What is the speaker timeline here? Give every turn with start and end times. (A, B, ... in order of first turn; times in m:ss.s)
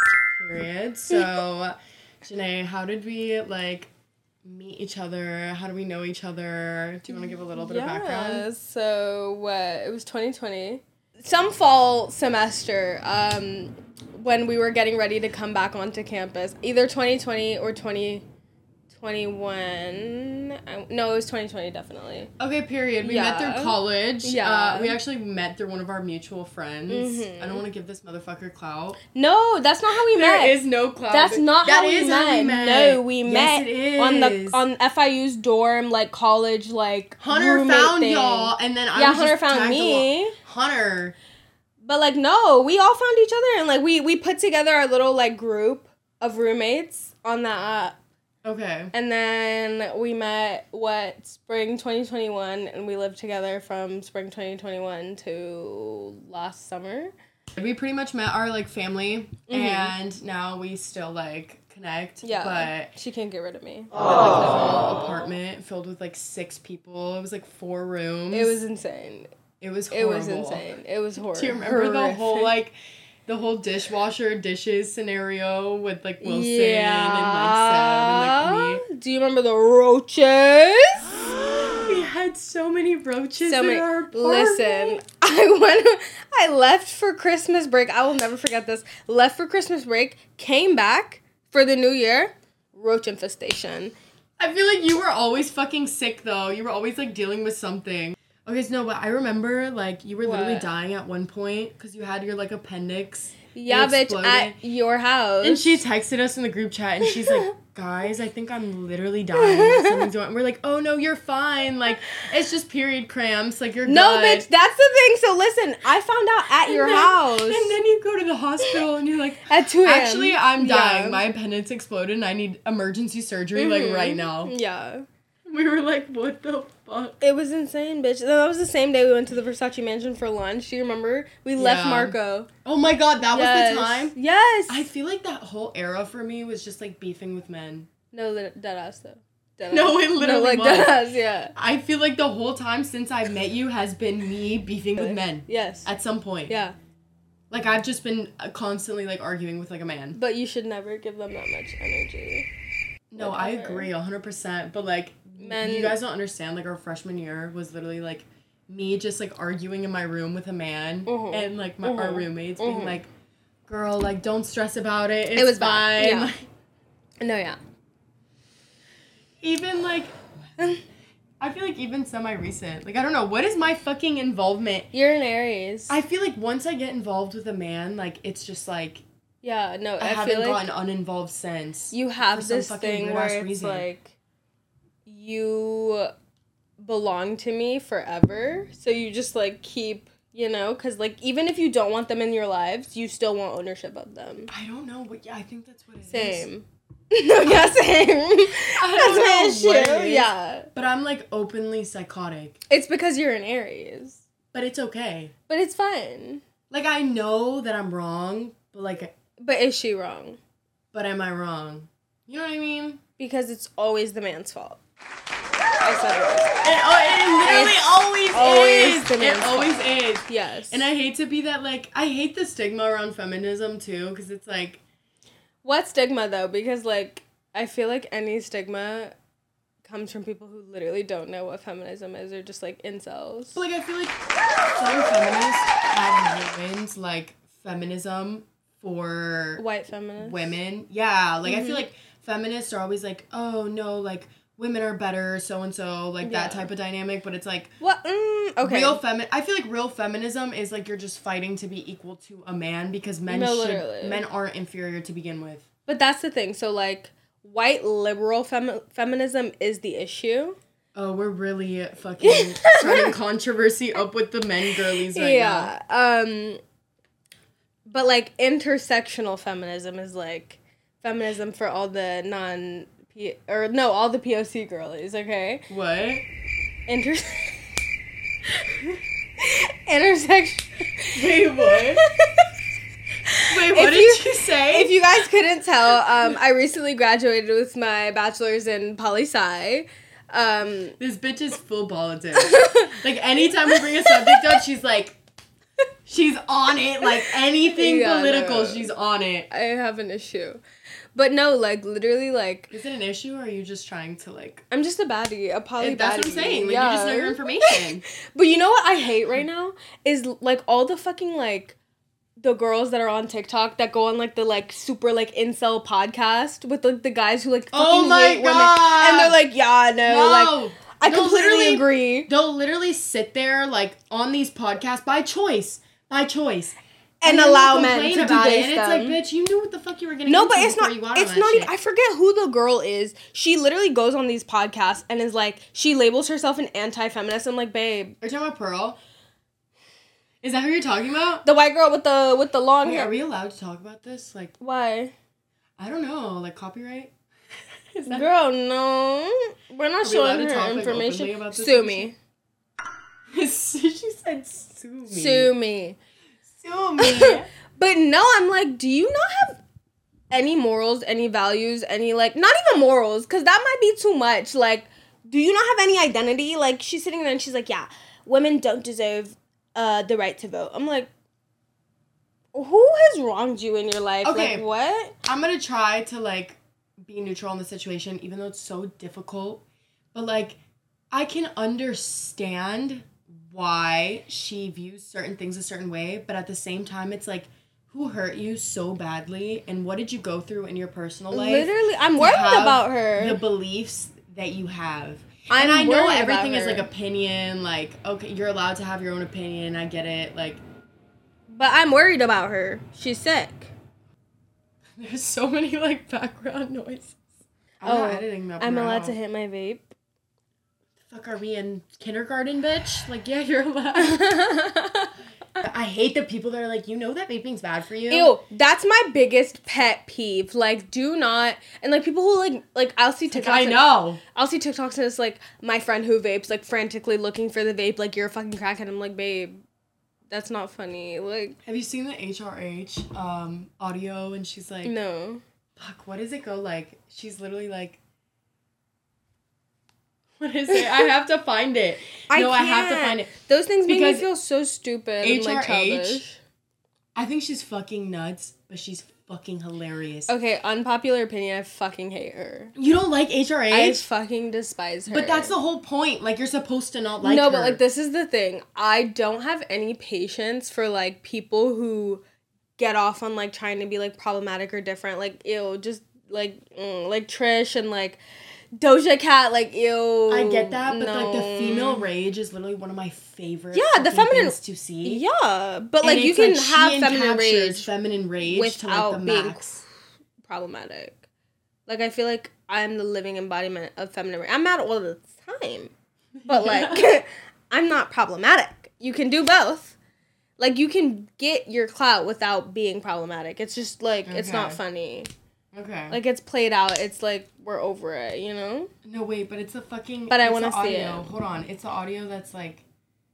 0:00.3-0:03.9 A
0:04.4-0:08.4 A
0:07.1-0:18.2 B
0:18.9-0:22.3 B
0:22.4-0:29.0 A
0:23.0-0:25.0 B
0:26.9-0:27.6 B
0:29.1-0:30.6 B
0:29.9-0:34.6 A
0:31.1-0:40.3 B
0:37.2-0:41.1 A
0:41.8-0:48.0 B
0:48.4-0:48.9 A
0:48.9-0:57.1 B
0:57.6-1:02.9 A
0:59.5-0:59.9 B
1:02.2-1:03.9 B
1:04.0-1:08.6 A
1:08.3-1:09.3 B
1:09.6-1:10.6 A
1:09.9-1:12.5 B
1:11.2-1:12.7 A
1:13.2-1:18.8 A
1:16.2-1:21.0 B
1:21.1-1:25.0 A
1:23.4-1:33.9 B
1:34.4-1:44.6 A
1:40.2-1:40.7 B
1:43.5-1:45.8 B
1:45.4-1:54.5 A
1:49.4-1:50.0 B
1:53.8-1:57.8 B
1:56.6-2:04.5 A
1:59.4-2:01.2 B
2:03.5-2:05.0 B
2:05.4-2:07.2 A
2:07.2-2:12.5 B
2:11.6-2:14.2 A
2:13.3-2:14.9 B
2:14.7-2:17.9 A
2:18.1-2:21.5 B
2:19.7-2:21.0 A
2:21.5-2:26.6 A
2:25.0-2:25.9 B
2:26.5-2:26.7 B
2:27.5-2:30.2 A
2:30.1-2:32.5 B
2:33.1-2:43.1 A
2:33.2-2:33.9 B
2:35.4-2:36.0 B
2:41.0-2:43.0 B
2:43.7-2:46.4 A
2:45.4-2:46.3 B
2:47.2-2:47.6 B
2:49.4-2:50.1 A
2:51.4-2:54.9 A
2:54.9-2:56.0 B
2:55.9-2:59.0 A
2:59.4-3:00.6 B
3:00.0-3:03.9 A
3:01.9-3:04.1 B
3:05.0-3:06.1 B
3:06.8-3:14.5 B
3:14.5-3:16.5 A
3:16.1-3:20.7 B
3:18.7-3:22.6 A
3:22.7-3:24.2 B
3:24.5-3:25.3 A
3:25.5-3:26.4 B
3:26.7-3:29.1 A
3:29.4-3:30.4 B
3:30.9-3:33.0 A
3:33.2-3:34.8 B
3:35.8-3:36.6 B
3:36.6-3:44.8 A
3:37.4-3:40.9 B
3:45.6-3:49.1 B
3:49.8-3:53.6 B
3:53.5-3:54.2 A
3:54.8-3:59.6 A
3:59.6-4:00.4 B
4:00.2-4:07.7 A
4:01.4-4:01.8 B
4:06.2-4:06.7 B
4:07.8-4:09.0 B
4:08.6-4:15.6 A
4:13.3-4:14.2 B
4:15.9-4:20.6 B
4:20.9-4:25.7 A
4:22.2-4:23.1 B
4:25.0-4:26.6 B
4:27.8-4:35.6 B
4:35.7-4:36.2 A
4:36.9-4:37.6 B
4:39.4-4:42.5 B
4:41.1-4:42.0 A
4:43.2-4:51.0 B
4:43.5-4:44.9 A
4:51.0-4:55.2 A
4:52.3-4:53.0 B
4:53.7-4:54.5 B
4:56.0-4:59.5 A
4:57.6-4:58.9 B
4:59.5-5:00.6 B
5:01.1-5:02.7 B
5:02.7-5:04.6 A
5:04.7-5:11.8 B
5:05.8-5:08.0 A
5:12.4-5:22.3 B
5:17.7-5:19.4 A
5:20.0-5:31.7 A
5:27.2-5:29.2 B
5:30.2-5:38.2 B
5:38.2-5:39.0 A
5:40.4-5:41.4 A
5:41.4-5:43.1 B
5:42.8-5:44.5 A
5:44.6-5:45.1 B
5:45.8-5:47.1 A
5:47.9-5:48.3 A
5:48.1-5:52.2 B
5:50.0-5:52.1 A
5:53.3-5:55.5 A
5:55.1-5:56.0 B
5:56.4-5:57.5 A
5:57.0-5:59.6 B
6:00.3-6:11.1 B
6:12.5-6:15.1 B
6:14.2-6:14.6 A
6:15.2-6:19.6 A
6:20.1-6:20.6 A
6:21.1-6:40.6 A
6:31.3-6:33.4 B
6:35.5-6:36.9 B
6:41.5-6:43.7 B
6:45.0-6:47.2 A
6:47.8-6:49.2 A
6:47.8-6:49.9 B
6:51.1-6:54.3 A
6:53.9-6:55.1 B
6:55.6-6:58.3 A
6:58.1-7:09.6 B
7:03.3-7:04.2 A
7:10.3-7:11.6 B
7:11.6-7:14.9 A
7:14.8-7:15.4 B
7:15.8-7:18.0 A
7:20.4-7:23.3 A
7:22.3-7:26.4 B
7:23.8-7:24.3 A
7:25.2-7:26.2 A
7:27.1-7:30.3 A
7:30.3-7:32.7 B
7:32.8-7:34.0 A
7:33.7-7:35.5 B
7:35.1-7:37.8 A
7:37.2-7:42.2 B
7:42.8-7:48.2 B
7:48.8-7:52.1 B
7:50.3-7:55.2 A
7:53.7-7:57.9 B
7:56.0-7:59.8 A
7:58.4-7:59.8 B
8:00.4-8:01.2 B
8:01.9-8:05.9 B
8:06.4-8:07.1 A
8:06.5-8:10.0 B
8:10.6-8:15.3 B
8:14.2-8:14.8 A
8:15.7-8:16.2 A
8:16.1-8:18.9 B
8:19.0-8:22.8 A
8:20.3-8:21.3 B